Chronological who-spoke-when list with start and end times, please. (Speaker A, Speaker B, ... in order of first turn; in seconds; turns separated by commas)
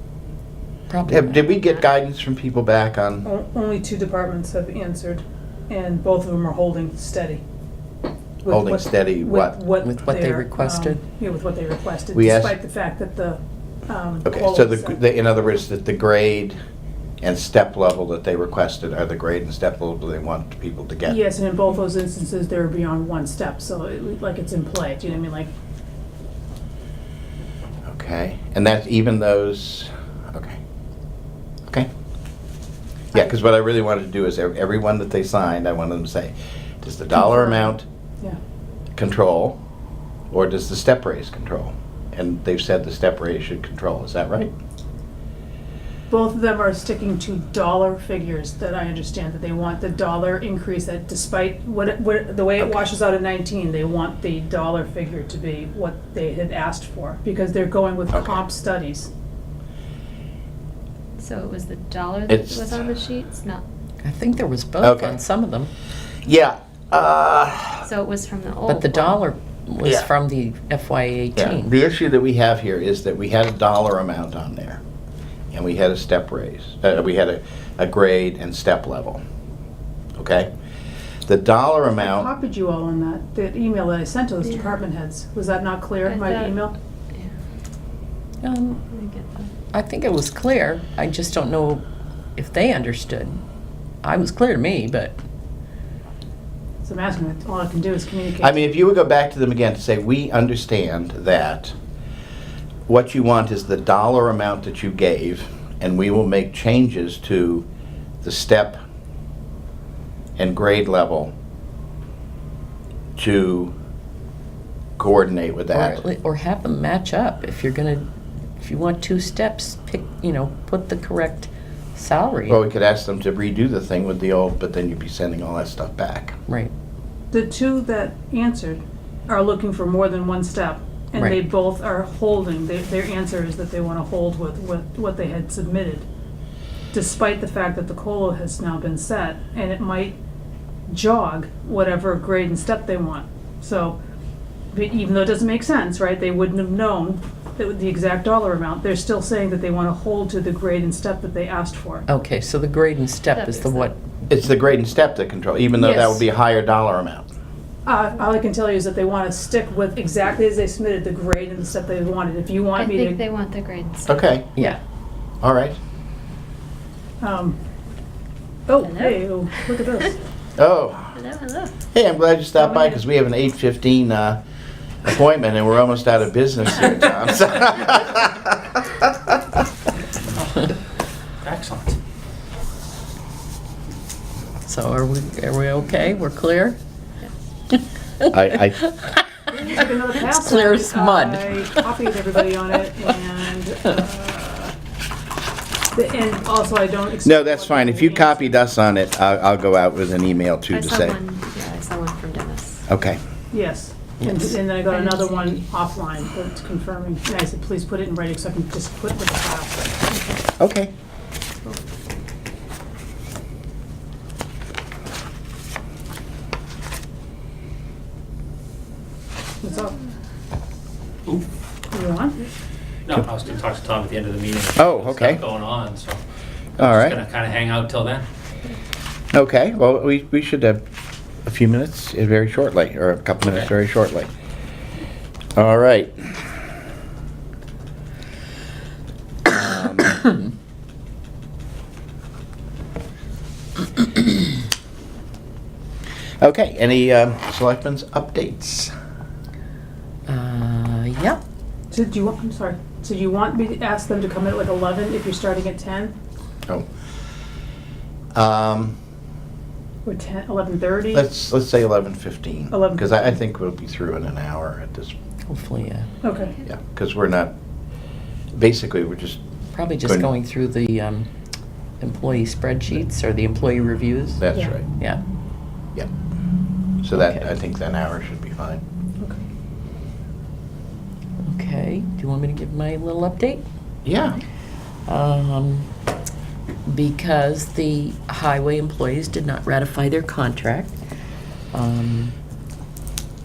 Speaker A: 0.9-1.6, Speaker B: 1.1-3.2, Speaker C: 3.2-7.4, Speaker C: 8.4-15.0, Speaker B: 8.5-9.6, Speaker A: 9.8-11.0, Speaker B: 12.1-12.6, Speaker B: 14.2-16.6, Speaker B: 17.2-21.2, Speaker C: 21.1-25.5, Speaker B: 27.9-30.6, Speaker B: 33.1-37.8, Speaker C: 37.1-38.4, Speaker B: 39.0-39.6, Speaker B: 40.3-44.5, Speaker C: 46.1-59.1, Speaker B: 58.1-58.4, Speaker D: 61.2-63.6, Speaker B: 62.3-62.8, Speaker A: 64.0-65.7, Speaker B: 64.8-65.2, Speaker B: 66.2-67.9, Speaker D: 67.8-69.2, Speaker A: 68.7-71.8, Speaker B: 71.4-74.8, Speaker B: 75.5-79.2, Speaker B: 80.2-80.5, Speaker B: 81.3-82.3, Speaker C: 82.0-86.7, Speaker D: 84.4-84.8, Speaker D: 86.0-86.6, Speaker A: 88.4-88.8, Speaker D: 88.9-89.5, Speaker A: 89.7-91.8, Speaker A: 92.4-93.4, Speaker A: 94.0-95.2, Speaker C: 96.8-98.6, Speaker B: 98.4-101.7, Speaker B: 102.9-107.7, Speaker B: 108.2-108.8, Speaker B: 110.4-111.3, Speaker B: 113.2-113.7, Speaker B: 115.0-116.0, Speaker A: 115.7-118.0, Speaker A: 118.6-122.6, Speaker B: 122.5-126.4, Speaker C: 127.3-136.1, Speaker C: 136.9-140.2, Speaker C: 140.9-144.0, Speaker C: 144.7-152.1, Speaker A: 152.1-154.0, Speaker D: 153.3-153.9, Speaker B: 154.3-157.3, Speaker C: 157.8-163.2, Speaker D: 162.8-164.2, Speaker B: 164.1-164.5, Speaker B: 165.4-165.8, Speaker C: 167.2-167.6, Speaker C: 168.7-170.2, Speaker D: 168.8-169.7, Speaker B: 170.6-171.2, Speaker D: 171.2-171.7, Speaker B: 171.9-174.4, Speaker B: 175.0-179.1, Speaker E: 181.4-182.0, Speaker A: 184.6-186.8, Speaker A: 187.7-192.0, Speaker B: 188.3-188.8, Speaker C: 189.5-194.7, Speaker C: 195.9-198.5, Speaker B: 197.2-201.2, Speaker D: 200.7-202.8, Speaker B: 202.9-203.2, Speaker C: 203.5-210.1, Speaker A: 204.2-204.5, Speaker D: 204.9-205.6, Speaker D: 210.1-210.4, Speaker B: 210.6-210.9, Speaker C: 219.6-220.0, Speaker C: 221.9-222.4, Speaker E: 223.1-226.2, Speaker B: 224.8-225.4, Speaker E: 226.8-228.2, Speaker B: 226.8-227.2, Speaker B: 229.3-230.8, Speaker B: 231.4-234.3, Speaker B: 235.6-236.4, Speaker B: 239.5-240.2, Speaker B: 246.4-248.9, Speaker A: 250.3-251.4, Speaker C: 251.9-256.1, Speaker B: 258.3-258.9, Speaker C: 260.0-261.2, Speaker B: 261.1-265.1, Speaker C: 262.7-263.4, Speaker A: 265.5-266.1, Speaker C: 266.2-266.5, Speaker D: 266.3-266.6, Speaker B: 266.6-267.5, Speaker B: 268.6-269.4, Speaker A: 269.7-271.3, Speaker B: 270.0-270.3, Speaker A: 272.0-274.4, Speaker B: 274.4-274.9, Speaker A: 274.9-275.2, Speaker B: 277.0-278.8, Speaker A: 277.1-277.4, Speaker A: 281.4-283.6, Speaker B: 284.1-284.4, Speaker A: 285.1-285.9, Speaker A: 286.9-290.9, Speaker A: 291.7-292.3